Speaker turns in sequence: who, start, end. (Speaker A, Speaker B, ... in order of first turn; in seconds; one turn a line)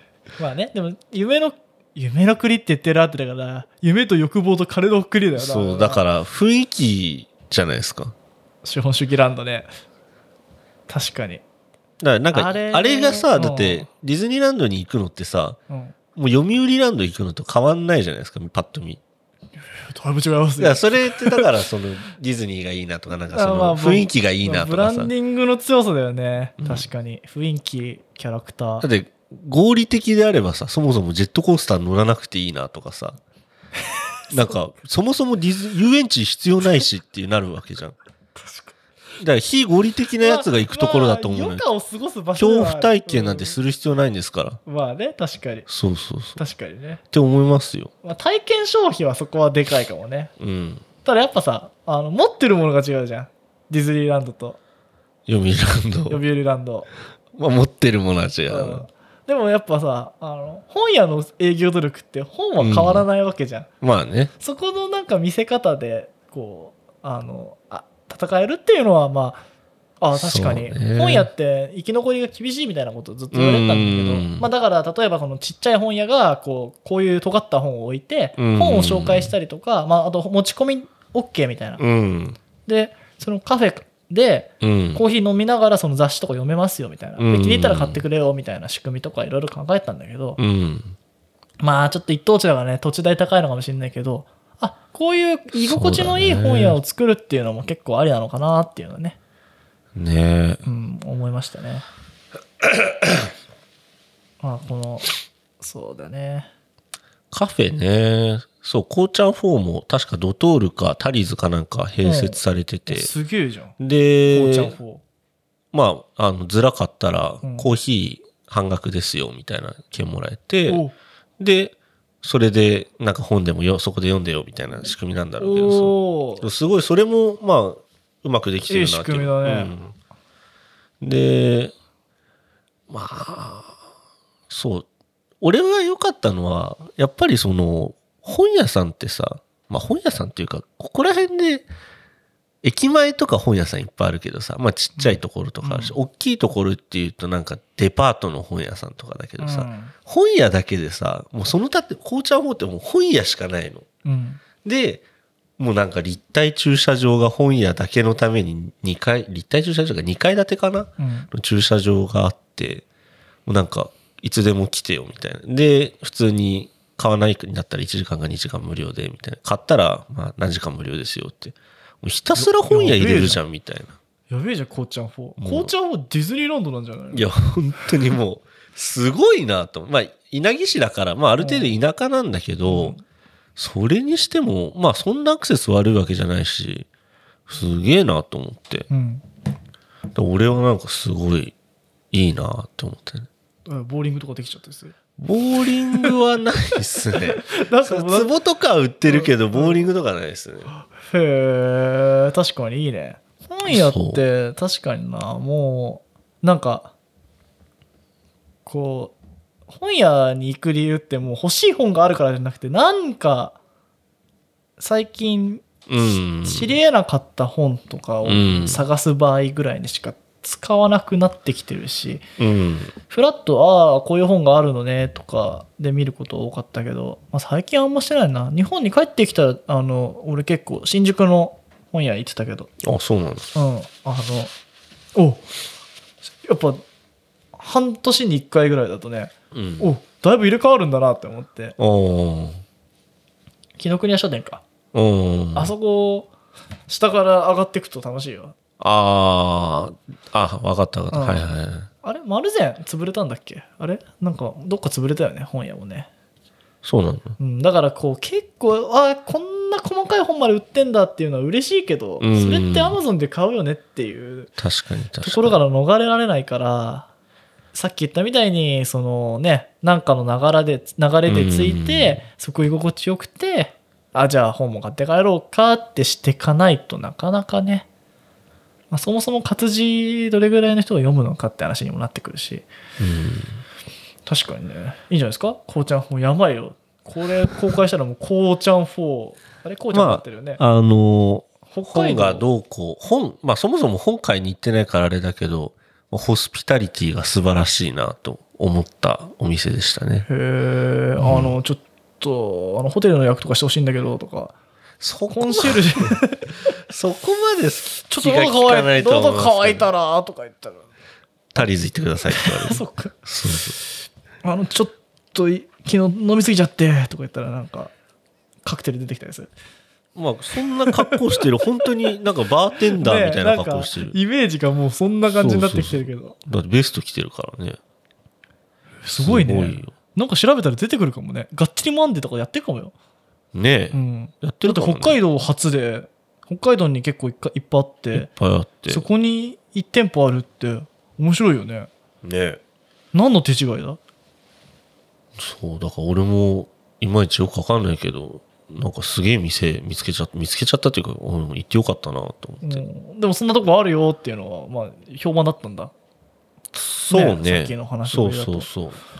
Speaker A: 0.4-6.0
Speaker B: 5.3-8.1
Speaker A: 8.6-9.7
Speaker A: 10.9-11.4
Speaker B: 12.0-15.6
Speaker A: 12.3-13.9
Speaker A: 15.7-15.9
Speaker B: 16.1-19.0
Speaker A: 19.6-21.5
Speaker B: 20.6-25.1
Speaker A: 23.3-28.9
Speaker B: 26.6-26.9
Speaker B: 28.8-33.2
Speaker B: 34.3-38.0
Speaker A: 38.4-38.7
Speaker B: 39.2-41.6
Speaker A: 40.2-43.6
Speaker B: 42.4-44.6
Speaker A: 44.6-45.7
Speaker B: 45.7-46.4
Speaker A: 46.4-47.0
Speaker B: 47.1-47.9
Speaker A: 48.0-50.3
Speaker B: 50.4-50.8
Speaker A: 51.0-54.6
Speaker B: 55.3-56.2
Speaker A: 56.1-56.9
Speaker B: 57.3-58.9
Speaker A: 58.5-63.7
Speaker B: 62.6-63.0
Speaker B: 63.8-64.3
Speaker A: 64.4-69.4
Speaker A: 70.0-81.8
Speaker B: 70.1-71.3
Speaker B: 73.3-74.5
Speaker B: 78.4-79.3
Speaker B: 81.8-82.4
Speaker A: 82.7-90.4
Speaker B: 84.6-85.0
Speaker B: 87.2-88.0
Speaker B: 90.4-91.0
Speaker A: 91.6-99.2
Speaker B: 95.5-96.8
Speaker B: 100.0-100.6
Speaker A: 100.7-101.8
Speaker A: 104.4-105.1
Speaker A: 105.6-106.5
Speaker B: 107.3-113.1
Speaker A: 112.0-113.8
Speaker B: 113.8-114.8
Speaker A: 114.3-115.0
Speaker B: 115.7-120.8
Speaker A: 117.4-117.7
Speaker A: 120.7-120.9
Speaker B: 121.4-129.9
Speaker A: 125.4-126.5
Speaker A: 128.7-129.7
Speaker B: 131.0-131.7
Speaker B: 132.9-133.7
Speaker B: 134.5-134.9
Speaker B: 135.4-141.7
Speaker B: 142.6-153.9
Speaker A: 145.0-145.9
Speaker A: 149.4-149.9
Speaker A: 154.0-154.4
Speaker B: 154.6-155.0
Speaker B: 155.6-162.8
Speaker A: 161.0-161.3
Speaker B: 163.4-173.9
Speaker A: 172.3-173.4
Speaker A: 174.3-177.2
Speaker B: 175.4-175.7
Speaker B: 177.1-182.9
Speaker A: 181.4-181.8
Speaker A: 182.7-183.0
Speaker B: 183.6-186.9
Speaker B: 187.5-188.9
Speaker A: 188.9-189.2
Speaker B: 190.1-191.5
Speaker B: 192.1-193.3
Speaker A: 193.7-194.9
Speaker B: 195.2-200.7
Speaker A: 197.1-198.3
Speaker A: 199.1-199.9
Speaker A: 200.8-206.9
Speaker B: 203.7-204.2
Speaker A: 208.7-209.1
Speaker A: 209.7-213.6
Speaker A: 214.8-215.6
Speaker B: 215.9-216.7
Speaker A: 216.4-222.2
Speaker B: 218.2-218.8
Speaker B: 222.4-222.9
Speaker A: 223.1-232.7
Speaker B: 232.8-233.5
Speaker A: 233.5-234.5
Speaker A: 235.1-235.4
Speaker A: 236.4-236.8
Speaker A: 237.6-241.8
Speaker B: 239.5-239.9
Speaker B: 241.8-242.6
Speaker A: 243.8-244.6
Speaker B: 244.9-245.7
Speaker A: 245.5-246.3
Speaker A: 246.9-248.5
Speaker B: 248.8-251.9
Speaker A: 251.1-251.4
Speaker A: 252.0-256.1
Speaker B: 256.8-257.4
Speaker A: 257.4-264.5
Speaker B: 262.2-262.9
Speaker B: 264.6-265.6
Speaker A: 265.2-267.1
Speaker A: 267.7-277.9
Speaker B: 271.2-272.2
Speaker A: 278.9-282.6
Speaker B: 283.0-283.6
Speaker A: 284.2-290.6
Speaker B: 289.9-300.3
Speaker A: 291.7-292.4
Speaker A: 300.3-304.5
Speaker B: 301.2-301.6
Speaker B: 305.0-306.2
Speaker A: 305.3-306.4
Speaker B: 306.9-309.9
Speaker A: 308.1-310.9
Speaker B: 311.5-313.8
Speaker A: 312.3-313.1
Speaker A: 314.4-317.9
Speaker A: 318.6-319.5
Speaker B: 320.1-324.1
Speaker A: 321.0-321.4
Speaker A: 322.9-326.4
Speaker B: 325.3-327.8
Speaker A: 329.0-332.9
Speaker B: 329.1-329.9
Speaker B: 333.5-335.2
Speaker A: 333.9-338.3
Speaker B: 338.1-339.0
Speaker A: 338.9-341.9
Speaker B: 342.2-342.6
Speaker A: 343.1-344.0
Speaker B: 345.4-352.8
Speaker A: 352.6-355.9
Speaker B: 356.7-359.0
Speaker A: 357.1-358.7